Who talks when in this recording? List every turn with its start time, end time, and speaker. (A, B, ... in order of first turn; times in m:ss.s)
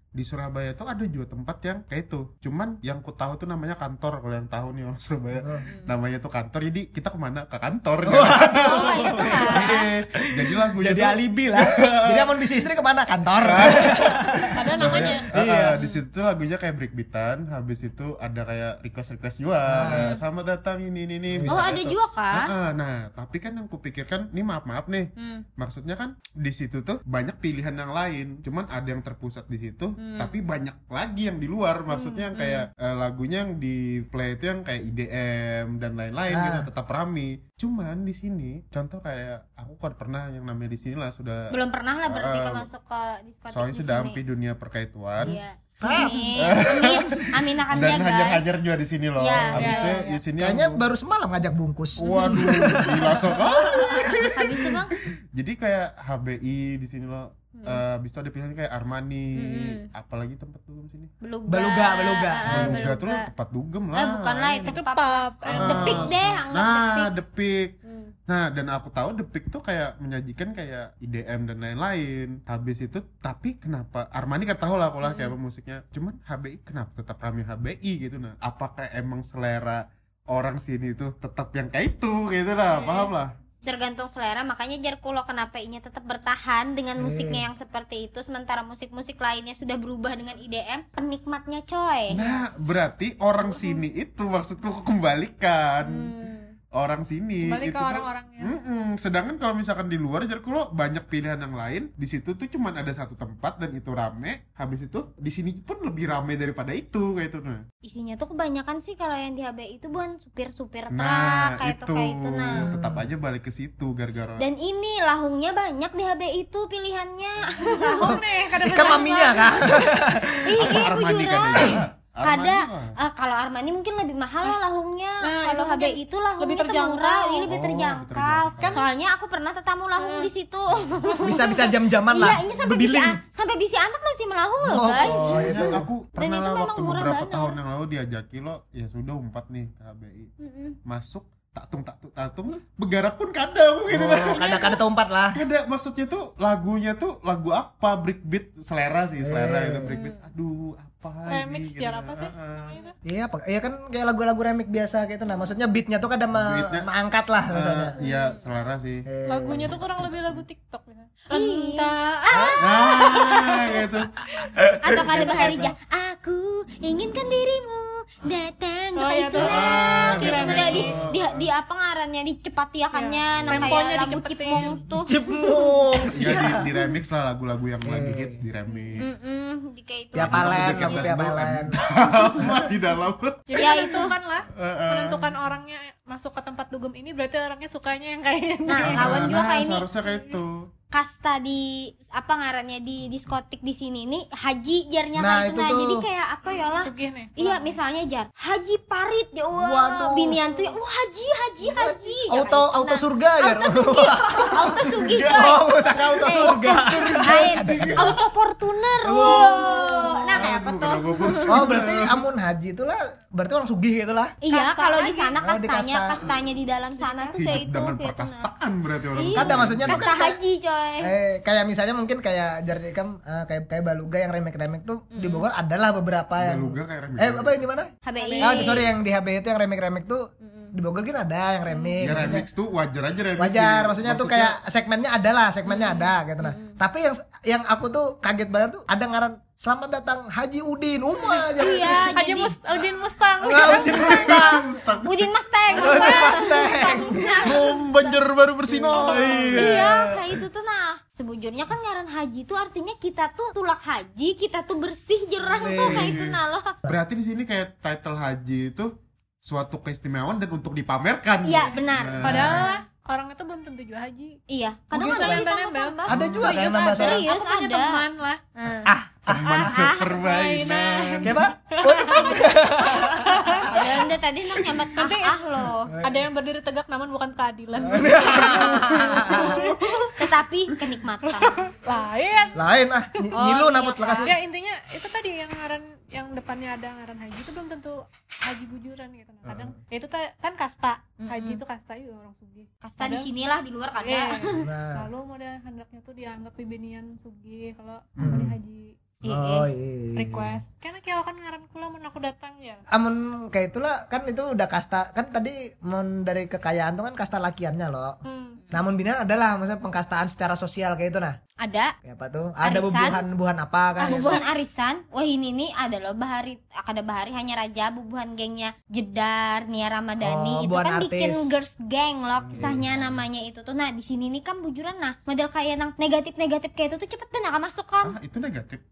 0:00.2-0:12.4 A
0:05.4-0:05.7 B
0:08.0-0:15.8 B
0:08.6-0:09.9 C
0:13.4-0:41.6 A
0:14.5-0:15.3 D
0:15.8-0:16.0 C
0:19.7-0:20.2 B
0:21.3-0:21.6 B
0:21.5-0:22.5 C
0:25.2-0:25.5 C
0:30.0-0:30.4 C
0:31.9-0:32.7 C
0:36.3-0:36.7 B
0:41.5-0:44.2 C
0:42.1-0:42.7 A
0:43.5-0:45.4 A
0:45.2-0:46.4 B
0:45.2-0:48.6 C
0:45.9-0:46.2 D
0:46.4-0:50.9 A
0:49.2-0:50.0 C
0:49.6-0:50.2 D
0:50.4-0:54.3 B
0:52.0-0:54.8 A
0:54.4-0:55.0 C
0:55.4-1:01.1 A
0:57.6-0:57.8 C
0:59.4-0:59.9 C
1:01.2-1:03.3 C
1:01.5-1:02.8 B
1:02.5-1:04.8 A
1:03.9-1:07.1 C
1:04.7-1:06.1 D
1:05.5-1:07.7 A
1:05.7-1:06.1 B
1:07.8-1:08.1 C
1:08.3-1:23.3 A
1:15.0-1:15.4 C
1:22.7-1:23.1 D
1:23.6-1:32.2 C
1:27.0-1:27.4 B
1:32.1-1:36.1 A
1:33.5-1:33.7 C
1:35.8-1:36.5 C
1:36.7-1:47.6 A
1:37.4-1:38.6 D
1:47.8-1:52.7 C
1:50.9-1:54.4 A
1:52.5-1:53.1 B
1:54.4-1:58.2 C
1:57.7-2:00.0 D
1:58.0-2:00.8 B
1:58.7-1:59.4 C
2:00.3-2:17.6 C
2:00.6-2:03.0 A
2:05.2-2:07.5 D
2:07.5-2:08.8 A
2:08.6-2:08.9 D
2:10.0-2:10.3 D
2:10.7-2:11.1 A
2:11.0-2:11.6 D
2:11.2-2:13.2 B
2:14.6-2:15.9 B
2:14.9-2:20.3 A
2:20.4-2:20.8 C
2:20.8-2:24.8 A
2:23.9-2:25.4 B
2:24.3-2:24.8 D
2:25.3-2:32.8 A
2:29.2-2:29.9 B
2:29.9-2:30.3 C
2:31.3-2:33.0 D
2:33.0-2:38.0 B
2:36.3-2:36.9 A
2:37.5-2:40.4 A
2:38.0-2:38.4 C
2:39.1-2:39.7 B
2:39.3-2:43.8 D
2:41.3-2:42.6 C
2:42.4-2:42.6 B
2:42.6-2:45.7 A
2:44.8-2:56.1 C
2:49.0-2:50.9 D
2:49.4-2:51.5 A
2:50.6-2:51.0 B
2:52.9-2:54.7 D
2:53.3-2:53.8 A
2:55.0-2:56.7 B
2:56.1-2:59.1 A
2:57.8-2:58.4 B
2:59.0-3:01.2 C
3:00.2-3:01.8 B
3:00.2-3:03.5 A
3:03.5-3:09.4 D
3:03.6-3:04.2 C
3:04.5-3:05.3 A
3:08.7-3:09.9 C
3:08.8-3:10.7 A
3:10.0-3:10.4 D
3:10.9-3:31.7 C
3:15.2-3:16.0 B
3:16.8-3:17.7 D
3:19.5-3:20.6 B
3:21.6-3:28.2 B
3:25.0-3:25.5 A
3:26.4-3:28.2 A
3:29.0-3:30.3 B
3:30.3-3:32.2 A
3:31.5-3:34.4 B
3:34.4-3:38.5 C
3:34.5-3:35.3 D
3:35.4-3:36.3 B
3:37.0-3:37.4 D
3:37.4-3:40.1 A
3:39.2-3:41.1 C
3:39.4-3:40.4 B
3:41.0-3:52.4 B
3:45.1-3:45.5 C
3:46.4-3:47.6 A
3:48.0-3:48.9 C
3:48.2-3:48.8 D
3:50.4-3:50.7 C
3:51.7-3:52.3 C
3:52.0-3:54.6 A
3:53.4-4:02.1 B
3:55.7-3:56.8 C
4:01.6-4:02.6 C
4:02.1-4:04.3 D
4:03.4-4:04.7 B
4:03.6-4:05.3 A
4:05.0-4:08.2 C
4:05.7-4:07.5 B
4:05.7-4:07.2 D
4:07.4-4:10.0 A
4:08.7-4:10.2 B
4:09.0-4:09.4 D
4:09.6-4:16.8 C
4:15.5-4:16.2 B
4:15.8-4:18.9 A
4:19.4-4:22.6 A
4:21.4-4:22.7 C
4:22.2-4:24.4 D
4:24.5-4:28.0 C
4:24.9-4:28.4 D
4:25.0-4:25.4 B
4:26.1-4:27.2 B
4:26.1-4:26.5 A
4:28.6-4:28.9 C
4:28.8-4:29.8 B
4:29.3-4:31.4 A
4:29.5-4:34.0 D
4:29.6-4:30.1 C
4:31.2-4:34.0 B
4:33.7-4:35.9 C
4:35.0-4:35.4 D
4:35.9-4:36.2 B
4:36.0-4:40.1 D
4:37.9-4:39.7 B
4:38.9-4:40.0 A
4:40.2-4:41.6 C
4:41.3-4:42.6 D
4:42.6-4:44.4 B
4:43.3-4:44.3 C
4:44.2-4:53.3 D
4:49.4-4:49.7 A
4:51.2-4:51.6 C
4:52.8-4:54.7 C
4:54.0-4:59.0 D
4:54.6-4:55.1 B
4:58.2-4:58.5 A
4:58.2-4:58.5 B
4:59.2-4:59.7 C
4:59.3-5:00.6 B
5:00.2-5:02.8 D
5:02.9-5:08.2 B
5:08.2-5:08.6 D
5:08.7-5:11.4 B
5:11.6-5:11.9 C
5:12.0-5:14.4 B
5:12.6-5:13.2 C
5:14.0-5:28.2 C
5:14.0-5:14.4 D
5:20.2-5:21.5 B
5:22.4-5:23.2 A
5:28.0-5:28.8 A